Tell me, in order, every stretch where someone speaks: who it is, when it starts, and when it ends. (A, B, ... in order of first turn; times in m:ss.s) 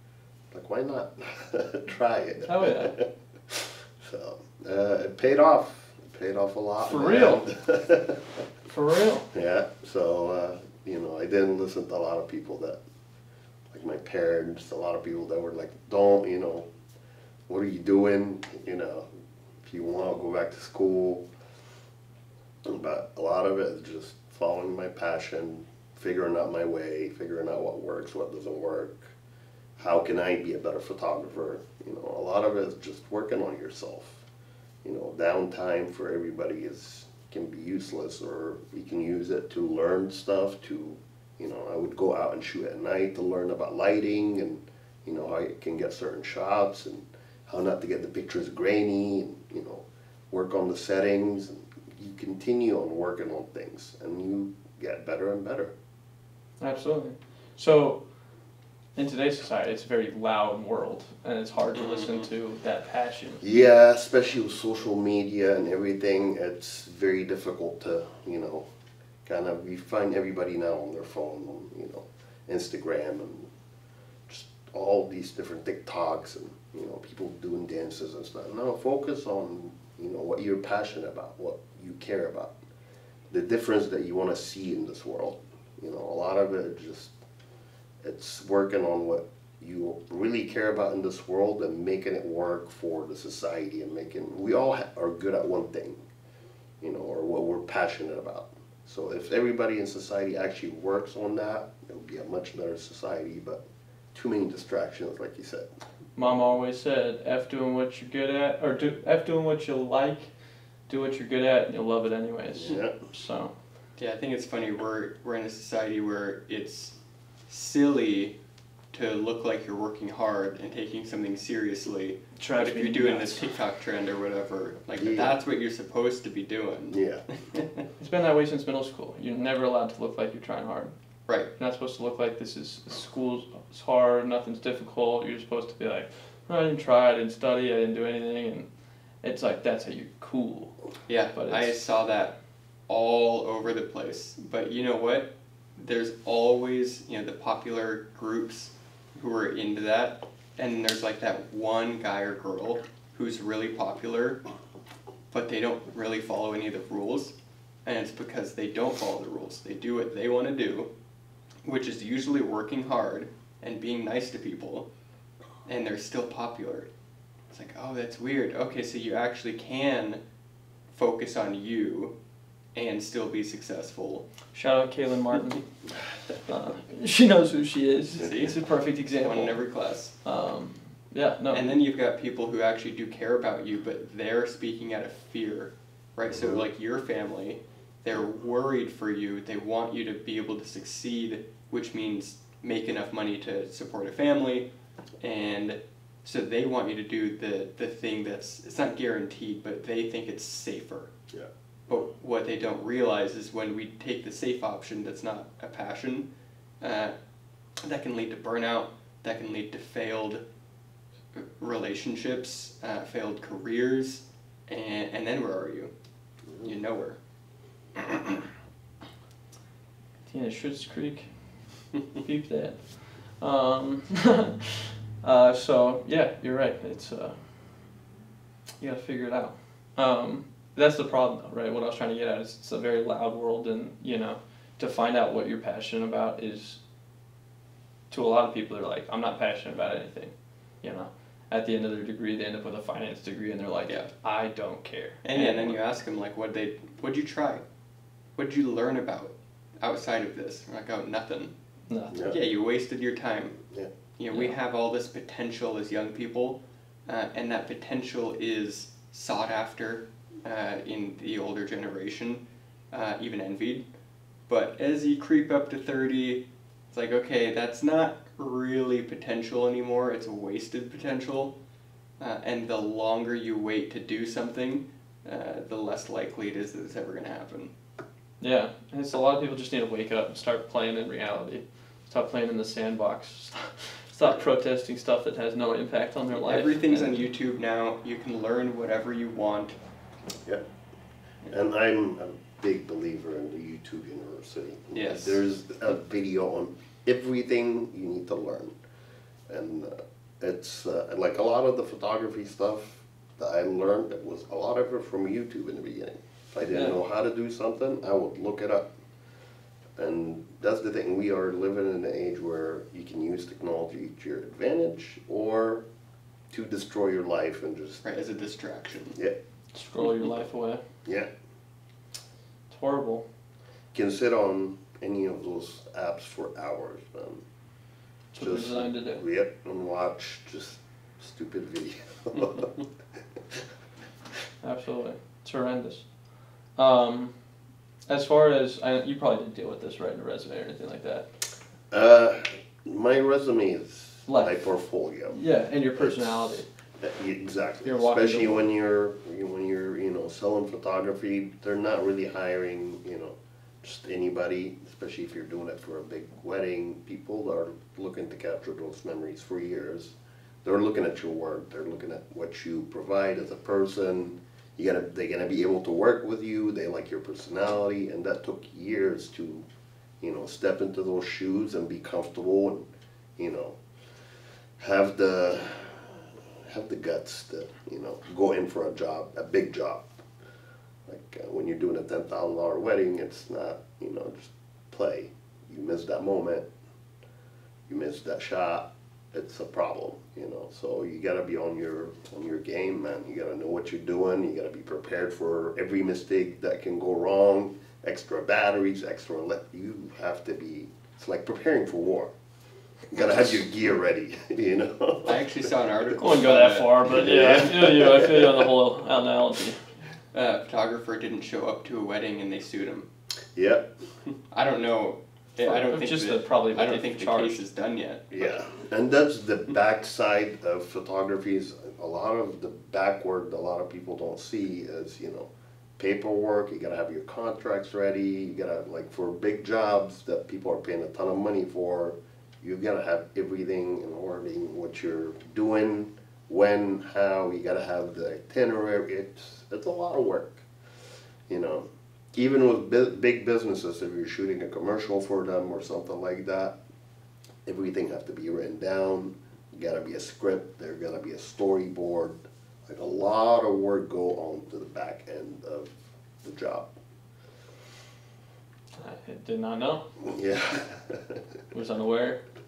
0:00.5-0:08.4 A
0:02.4-0:02.9 B
0:06.8-0:07.4 B
0:08.7-0:09.2 B
0:09.3-0:12.8 A
0:13.7-0:16.7 A
0:17.5-0:19.1 A
0:19.6-0:21.2 A
0:22.6-0:29.1 A
0:29.8-0:34.2 A
0:34.8-0:55.7 A
0:56.6-0:58.0 B
0:59.0-1:03.4 B
1:01.8-1:02.3 C
1:03.4-1:08.6 A
1:09.2-1:13.5 A
1:14.3-1:22.6 A
1:23.3-1:27.1 A
1:28.0-1:36.0 A
1:36.8-1:43.6 A
1:44.1-1:45.7 A
1:46.2-1:50.3 B
1:50.9-1:53.5 B
1:52.5-1:52.9 A
1:54.0-1:57.0 C
1:57.5-1:58.3 C
1:58.9-2:07.8 C
2:02.4-2:03.5 B
2:05.0-2:05.3 A
2:06.9-2:07.2 A
2:08.0-2:10.9 B
2:11.6-2:18.7 B
2:19.2-2:20.8 B
2:21.1-2:22.4 C
2:21.3-2:21.8 B
2:22.9-2:34.4 C
2:35.3-2:37.3 C
2:37.8-2:40.9 C
2:41.6-2:44.9 C
2:45.6-2:46.9 C
2:47.5-2:50.2 C
2:50.9-2:52.1 C
2:52.7-2:54.2 C
2:54.5-2:55.6 B
2:56.5-2:59.6 B
2:58.2-2:58.6 C
2:59.2-3:00.1 C
3:00.2-3:01.8 B
3:01.5-3:14.7 C
3:06.3-3:06.7 A
3:15.2-3:21.1 C
3:21.9-3:26.3 C
3:26.8-3:27.1 C
3:27.8-3:30.4 C
3:31.3-3:35.9 C
3:36.6-3:37.2 C
3:40.2-3:41.3 B
3:42.2-3:47.8 B
3:48.8-3:56.8 B
3:58.1-4:05.8 B
4:05.2-4:07.6 C
4:08.4-4:11.5 C
4:11.9-4:12.2 B
4:12.1-4:12.4 A
4:12.1-4:13.6 C
4:14.2-4:23.8 C
4:24.5-4:31.5 C
4:32.2-4:37.7 C
4:38.4-4:47.2 B
4:46.3-4:49.8 C
4:51.5-4:58.8 A
4:54.9-4:55.4 C
4:59.5-5:08.8 A
5:10.0-5:15.8 A
5:16.5-5:18.0 A
5:18.0-5:19.2 C
5:19.7-5:20.8 B
5:22.7-5:23.2 B
5:23.9-5:27.4 A
5:28.3-5:29.2 B
5:28.4-5:32.7 A
5:34.6-5:36.1 B
5:36.7-5:37.4 B
5:38.1-5:41.3 B
5:41.9-5:45.4 A
5:44.3-5:44.7 B
5:45.3-5:46.7 B
5:46.0-6:09.6 A
5:47.8-5:48.6 B
6:10.2-6:13.8 A
6:14.8-6:20.2 A
6:21.0-6:26.7 A
6:27.9-6:42.3 A
6:43.1-6:45.4 A
6:45.2-6:47.1 C
6:46.2-6:49.9 B
6:47.1-6:48.7 A
6:50.3-6:53.1 C
6:53.5-6:53.9 A
6:54.5-6:58.5 C
6:55.6-6:57.6 B
6:58.3-7:20.6 A
7:21.5-7:26.7 A
7:27.6-7:36.9 A
7:39.0-7:40.1 B
7:40.2-7:41.4 A
7:41.7-7:42.4 B